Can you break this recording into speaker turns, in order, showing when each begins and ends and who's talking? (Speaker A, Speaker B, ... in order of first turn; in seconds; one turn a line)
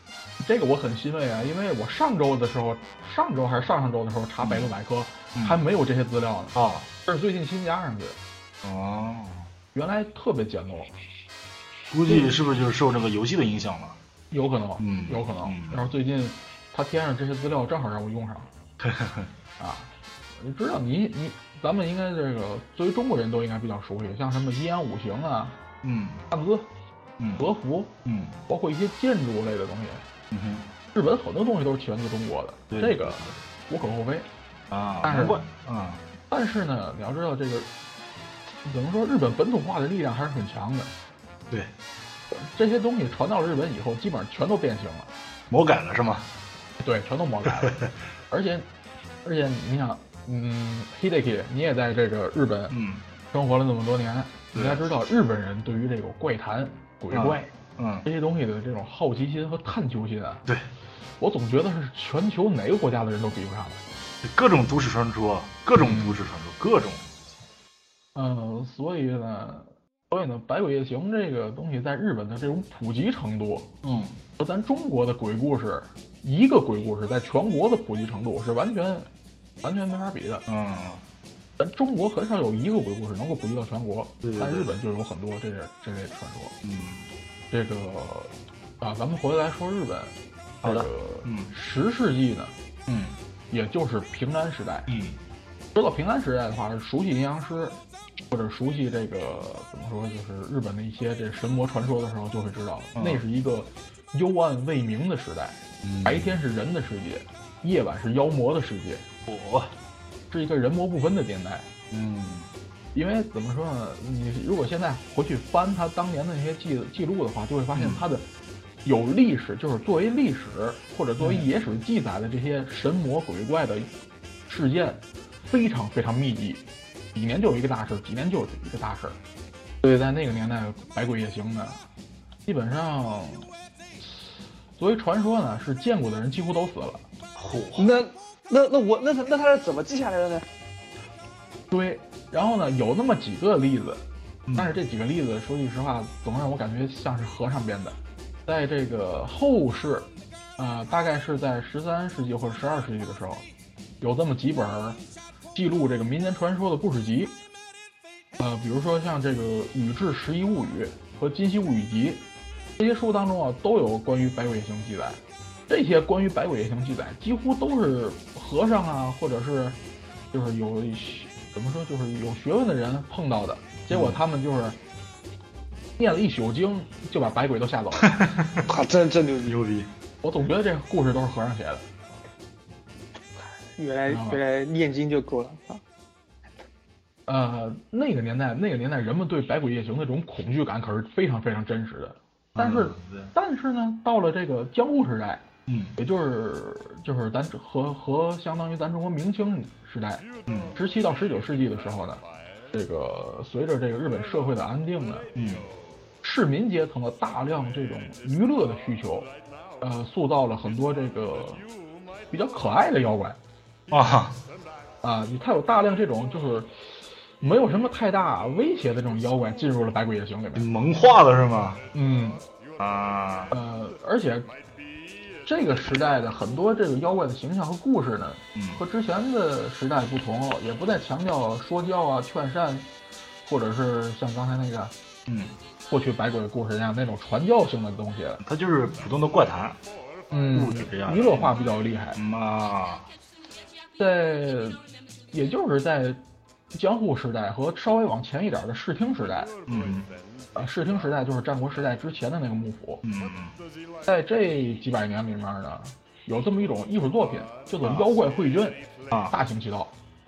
Speaker A: 0.4-8.2
Speaker B: 4.4-4.7
Speaker B: 6.5-6.9
Speaker B: 8.6-9.4
Speaker A: 9.7-11.0
Speaker B: 11.9-14.0
Speaker A: 14.3-18.5
Speaker B: 14.8-15.8
Speaker B: 18.8-19.3
Speaker A: 19.6-25.6
Speaker B: 25.8-26.3
Speaker A: 26.3-26.7
Speaker B: 27.2-27.4
Speaker A: 27.4-28.0
Speaker B: 28.1-28.4
Speaker A: 28.5-30.0
Speaker B: 30.3-30.7
Speaker A: 30.9-34.3
Speaker B: 32.7-33.3
Speaker B: 34.7-36.0
Speaker A: 35.0-35.4
Speaker A: 36.3-37.7
Speaker A: 38.6-40.9
Speaker A: 42.3-45.1
Speaker B: 45.5-46.3
Speaker A: 46.8-48.7
Speaker B: 47.5-47.9
Speaker A: 49.2-52.8
Speaker B: 52.7-53.0
Speaker A: 53.3-57.5
Speaker B: 54.5-54.9
Speaker B: 57.1-58.1
Speaker A: 58.0-60.5
Speaker A: 61.2-63.8
Speaker B: 64.2-67.1
Speaker A: 65.8-66.2
Speaker A: 68.2-73.7
Speaker B: 73.8-74.2
Speaker A: 74.4-79.1
Speaker A: 79.6-80.5
Speaker B: 80.5-81.0
Speaker A: 81.6-86.6
Speaker B: 84.2-84.7
Speaker B: 86.6-87.1
Speaker A: 87.5-92.5
Speaker B: 90.6-91.5
Speaker B: 92.9-93.2
Speaker A: 93.5-94.9
Speaker B: 94.9-95.2
Speaker A: 95.8-97.8
Speaker A: 98.3-109.0
Speaker B: 103.0-103.2
Speaker B: 105.8-106.3
Speaker B: 109.3-109.7
Speaker A: 110.3-111.7
Speaker B: 111.9-112.5
Speaker A: 112.9-118.3
Speaker B: 117.7-118.1
Speaker A: 118.8-123.9
Speaker B: 121.2-121.5
Speaker A: 124.5-129.2
Speaker A: 129.8-131.8
Speaker A: 132.5-133.5
Speaker A: 134.0-137.1
Speaker B: 137.4-137.9
Speaker C: 137.8-140.5
Speaker A: 141.7-144.0
Speaker B: 144.5-144.7
Speaker A: 144.5-153.5
Speaker A: 154.0-155.0
Speaker A: 155.5-157.4
Speaker A: 158.4-169.8
Speaker A: 170.3-174.8
Speaker B: 173.9-174.2
Speaker A: 176.0-178.3
Speaker B: 178.0-178.7
Speaker C: 178.7-179.6
Speaker B: 179.4-179.9
Speaker A: 180.2-181.8
Speaker C: 183.8-185.8
Speaker A: 184.1-184.4
Speaker A: 187.3-195.4
Speaker B: 192.6-193.3
Speaker B: 195.7-195.9
Speaker A: 196.0-205.3
Speaker B: 200.5-200.7
Speaker B: 205.3-205.7
Speaker A: 206.2-211.6
Speaker A: 212.3-213.4
Speaker B: 213.9-214.4
Speaker A: 215.0-220.7
Speaker B: 220.6-221.8
Speaker A: 221.9-222.4
Speaker B: 222.8-223.5
Speaker A: 223.5-224.5
Speaker A: 225.4-232.9
Speaker B: 228.6-228.8
Speaker A: 233.4-234.9
Speaker B: 235.3-235.5
Speaker A: 235.9-238.4
Speaker B: 238.4-239.8
Speaker A: 240.3-242.2
Speaker B: 240.5-243.1
Speaker A: 244.0-244.8
Speaker A: 245.3-246.2
Speaker A: 246.7-249.5
Speaker B: 249.7-250.1
Speaker A: 250.6-253.0
Speaker B: 253.0-253.6
Speaker A: 254.1-259.9
Speaker B: 257.8-258.1
Speaker B: 259.1-259.4